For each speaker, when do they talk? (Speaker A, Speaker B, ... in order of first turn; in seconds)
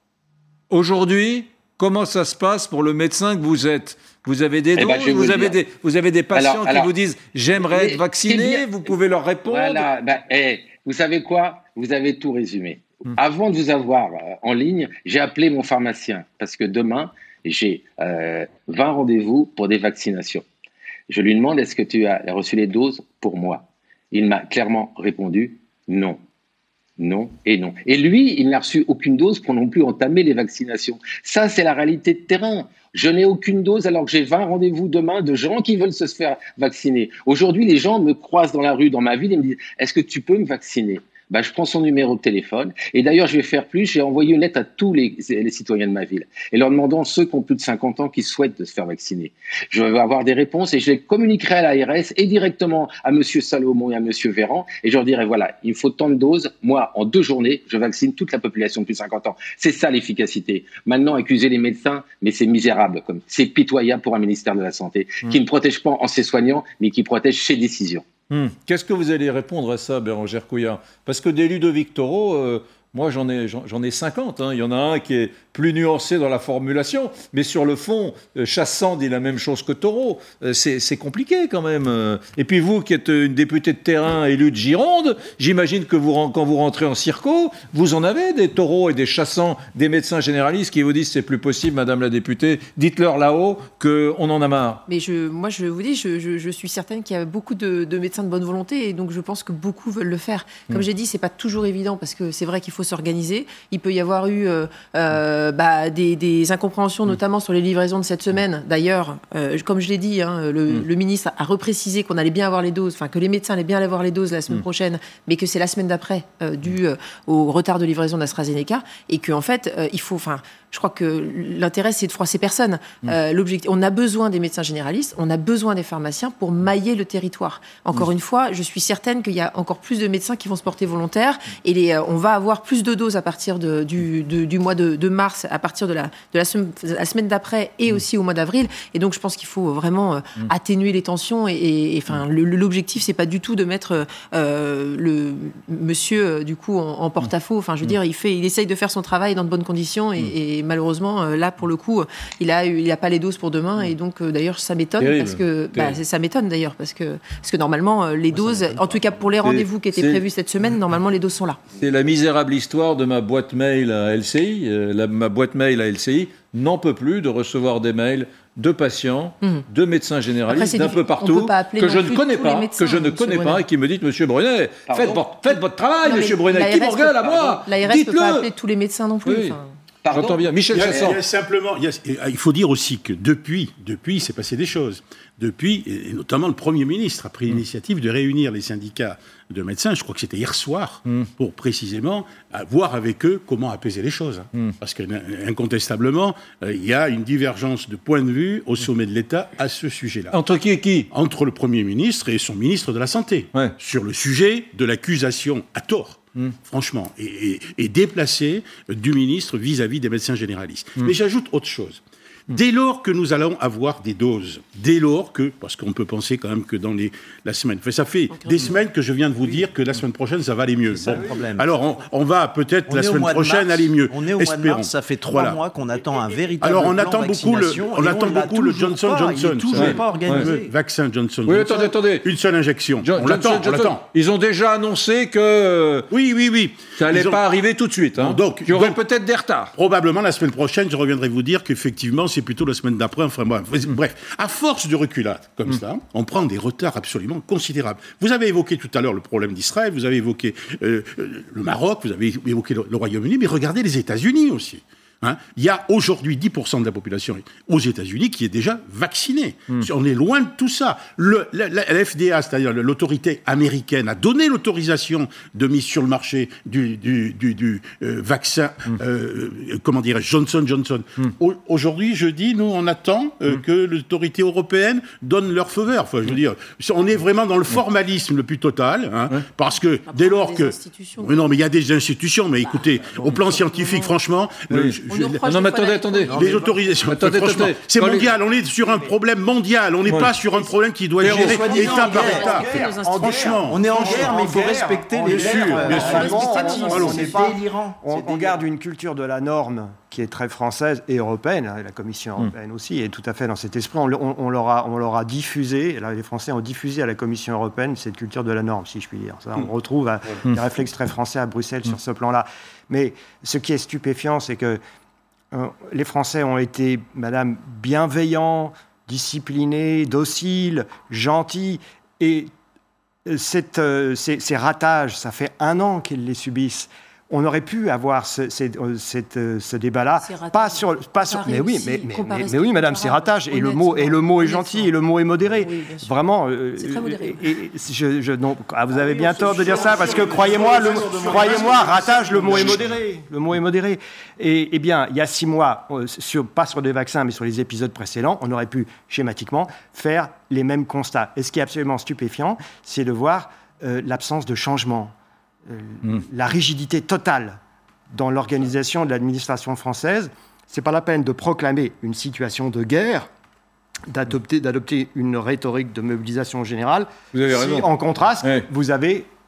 Speaker A: 0.7-9.9, 68.3-94.8, 155.0-156.0, 158.3-160.2, 161.8-178.5, 179.2-179.6, 180.1-181.2, 200.3-201.1, 229.7-230.5, 231.5-232.3, 233.0-236.1, 237.0-239.7, 284.7-286.4, 287.1-288.3, 291.2-291.6, 367.3-367.9, 368.4-368.7
Speaker B: 4.8-5.6, 6.3-6.9, 7.6-8.7, 9.5-20.4, 21.1-26.2, 27.0-68.0, 174.9-175.2, 180.0-181.2
Speaker C: 94.9-161.6, 170.5-173.6, 176.0-179.7, 279.8-281.6, 282.6-284.1, 285.0-286.8, 291.6-293.7, 295.8-297.4, 330.2-335.0, 335.6-336.2, 336.8-337.5, 339.4-340.4, 341.1-341.4
Speaker D: 180.7-200.4, 201.1-225.6, 226.6-234.0, 236.1-237.4, 238.2-239.0, 239.8-285.5, 286.3-294.4, 295.1-297.2, 339.3-342.9
Speaker E: 220.9-221.7, 222.9-230.7, 286.3-286.7, 291.2-292.9, 293.6-298.6
Speaker F: 291.6-314.8, 315.5-322.5, 323.3-355.1, 355.7-357.6, 358.1-363.3, 364.1-369.3